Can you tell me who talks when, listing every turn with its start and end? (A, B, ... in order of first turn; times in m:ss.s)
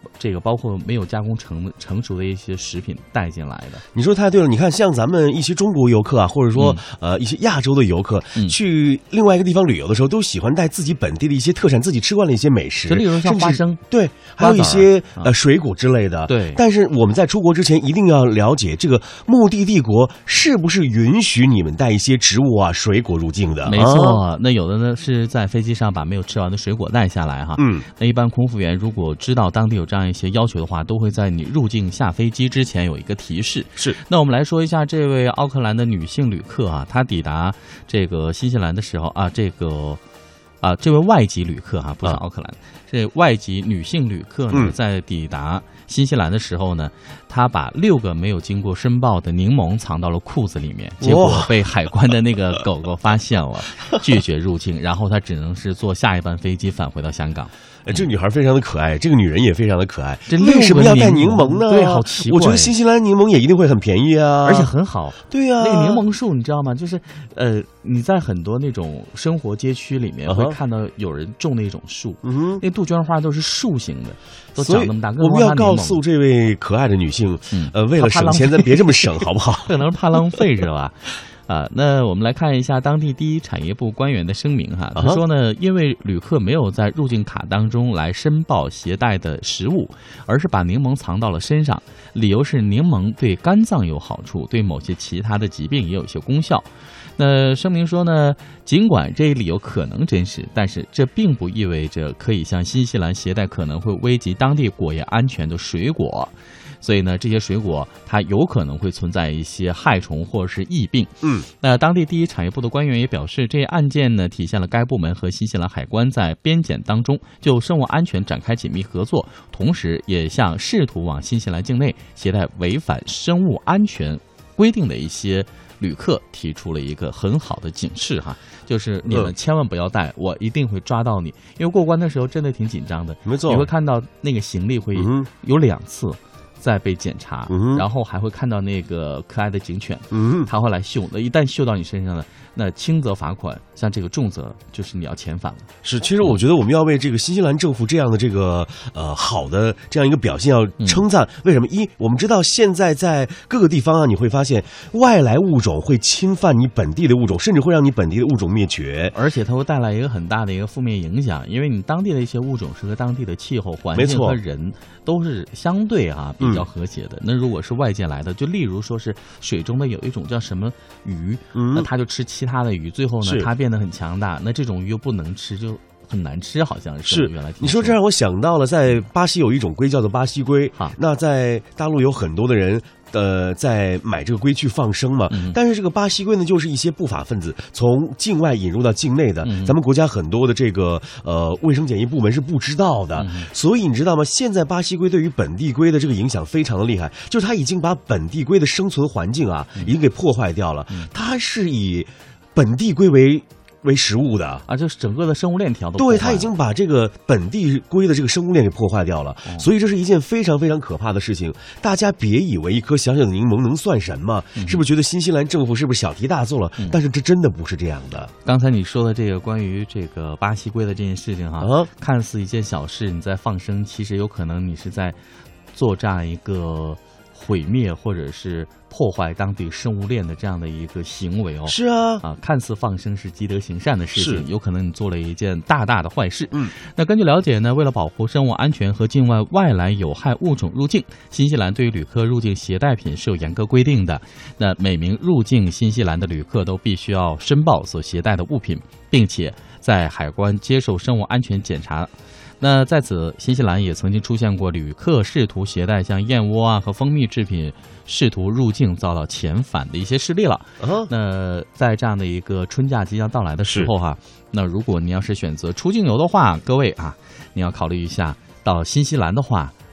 0:00.2-0:03.8 A
0:03.9-0:24.2 B
0:06.5-0:06.8 A
0:12.9-0:13.8 A
0:14.4-0:15.3 A
0:16.3-0:16.6 A
0:23.6-0:40.0 A
0:27.6-0:27.8 B
0:40.6-0:58.1 A
0:51.0-0:51.5 B
0:57.9-1:04.7 B
1:00.3-1:02.7 A
1:04.4-1:16.0 A
1:05.3-1:06.0 B
1:10.3-1:10.6 B
1:12.2-1:12.6 B
1:14.6-1:19.7 B
1:17.5-1:19.1 A
1:19.6-2:25.7 A
1:25.0-1:25.2 B
2:13.3-2:13.7 B
2:15.0-2:15.3 B
2:17.5-2:17.8 B
2:20.1-2:20.5 B
2:25.8-2:39.2 B
2:39.1-2:58.0 A
2:44.0-2:44.4 B
2:46.4-2:46.7 B
2:51.5-2:51.9 B
2:53.2-2:53.5 B
2:57.1-3:24.6 B
3:05.3-3:05.6 A
3:09.4-3:09.8 A
3:13.2-3:13.5 A
3:24.7-3:26.5 A
3:26.0-3:38.3 B
3:34.6-3:34.8 A
3:38.4-3:45.2 A
3:41.6-3:41.9 B
3:45.7-4:29.7 A
3:51.7-3:52.2 B
3:54.2-3:54.5 B
4:20.8-4:21.1 B